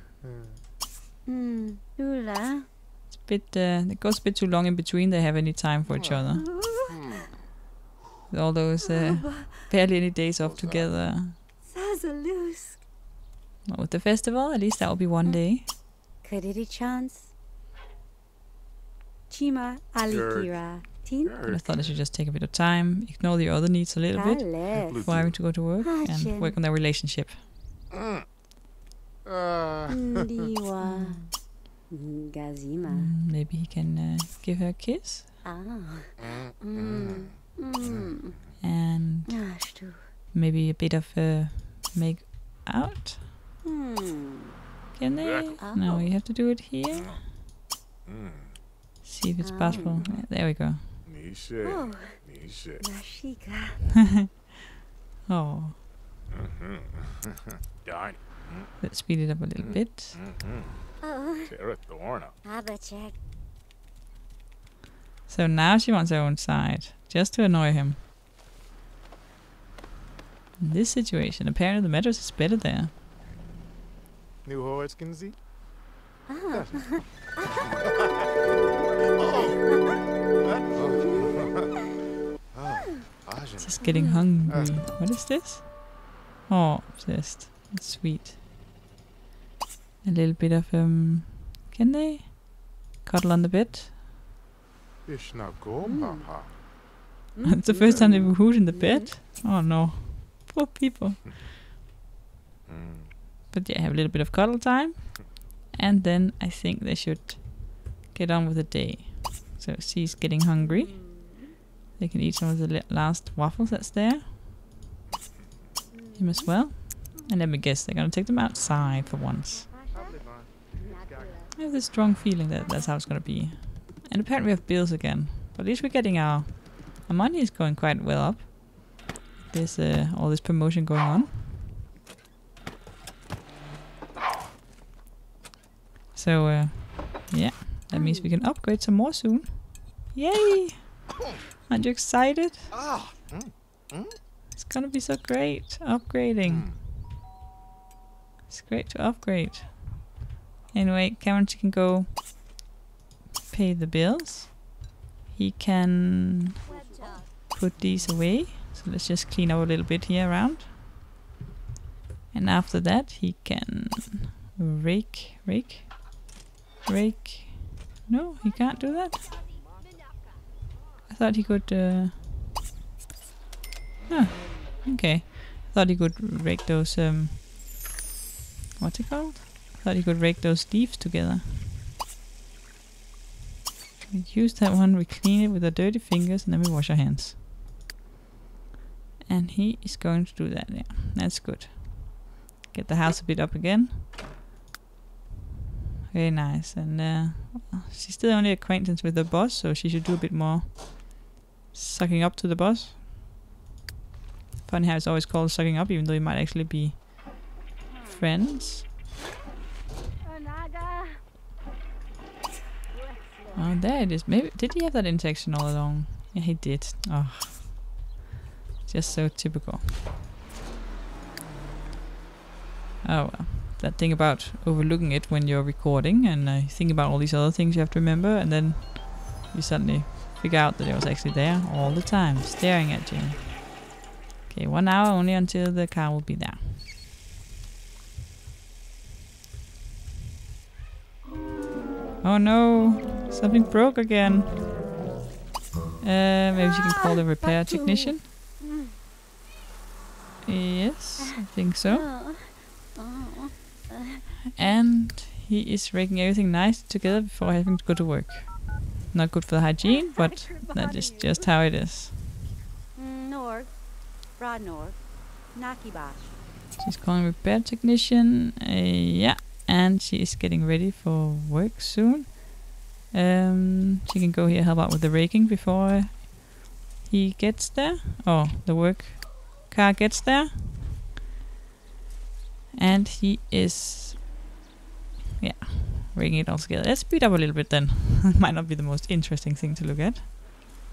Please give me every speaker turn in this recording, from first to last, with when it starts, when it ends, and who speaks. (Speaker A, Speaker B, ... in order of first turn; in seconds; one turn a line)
Speaker A: 0.2-0.6
Speaker B: 1.2-2.7
Speaker C: 3.1-6.5
Speaker A: 5.9-6.2
Speaker B: 6.5-7.1
Speaker A: 6.9-7.2
Speaker C: 8.3-11.4
Speaker B: 8.9-9.5
Speaker A: 10.4-11.0
Speaker B: 11.6-12.8
Speaker C: 13.7-15.7
Speaker B: 16.2-17.3
Speaker B: 19.3-21.3
Speaker A: 20.1-22.0
Speaker C: 21.4-27.4
Speaker B: 24.1-26.5
Speaker A: 24.7-25.4
Speaker A: 27.9-28.2
Speaker A: 29.2-30.1
Speaker B: 29.9-31.3
Speaker C: 30.8-31.3
Speaker B: 31.9-33.1
Speaker C: 32.9-35.3
Speaker B: 35.4-38.4
Speaker A: 36.2-37.3
Speaker A: 37.8-38.1
Speaker C: 38.6-39.4
Speaker B: 39.3-40.1
Speaker C: 40.3-43.2
Speaker B: 43.6-44.5
Speaker C: 44.9-47.2
Speaker A: 45.2-45.6
Speaker B: 45.6-46.1
Speaker A: 48.0-48.5
Speaker C: 49.0-51.0
Speaker B: 49.4-50.0
Speaker A: 49.7-50.3
Speaker A: 51.0-52.9
Speaker B: 51.6-52.2
Speaker B: 52.8-53.8
Speaker C: 55.3-55.8
Speaker A: 56.3-58.8
Speaker C: 58.8-60.1
Speaker A: 59.6-60.9
Speaker B: 61.0-61.8
Speaker A: 61.4-62.3
Speaker B: 62.4-63.2
Speaker C: 65.3-68.0
Speaker C: 70.6-72.9
Speaker A: 74.4-75.4
Speaker B: 76.3-77.5
Speaker A: 76.5-77.0
Speaker A: 79.2-79.6
Speaker A: 80.3-81.7
Speaker A: 82.5-84.8
Speaker C: 83.6-88.3
Speaker B: 83.8-84.6
Speaker C: 90.0-94.0
Speaker A: 95.0-96.5
Speaker B: 95.8-96.4
Speaker B: 97.3-99.1
Speaker C: 97.4-101.3
Speaker A: 97.9-98.3
Speaker A: 102.7-103.1
Speaker C: 103.5-111.0
Speaker B: 110.6-111.5
Speaker C: 112.0-114.3
Speaker B: 115.9-116.9
Speaker C: 116.2-119.7
Speaker B: 119.1-121.5
Speaker A: 119.9-121.3
Speaker C: 121.5-131.4
Speaker C: 136.1-142.8
Speaker B: 137.9-138.3
Speaker A: 142.7-144.1
Speaker C: 144.6-146.7
Speaker A: 146.4-146.8
Speaker C: 148.5-150.1
Speaker C: 150.7-152.2
Speaker C: 153.5-154.8
Speaker C: 155.3-156.6
Speaker B: 156.7-157.3
Speaker C: 157.5-160.7
Speaker C: 162.3-166.3
Speaker C: 166.8-169.3
Speaker C: 171.1-172.2
Speaker C: 174.1-177.6
Speaker C: 178.8-181.7
Speaker C: 184.1-187.4
Speaker C: 189.2-194.1
Speaker C: 196.1-201.2
Speaker C: 201.7-203.0
Speaker C: 204.6-207.3
Speaker B: 207.8-208.2
Speaker C: 208.1-208.8
Speaker B: 210.2-211.2
Speaker B: 212.9-213.8
Speaker C: 213.5-217.9
Speaker C: 218.8-220.2
Speaker C: 223.0-233.9
Speaker C: 234.5-236.8
Speaker C: 242.2-244.7
Speaker C: 246.0-248.2
Speaker B: 246.6-248.9
Speaker C: 250.4-252.1
Speaker B: 251.3-254.7
Speaker C: 254.5-262.4
Speaker B: 259.8-261.5
Speaker B: 262.9-266.3
Speaker C: 266.8-280.8
Speaker C: 282.7-284.3
Speaker C: 285.4-290.3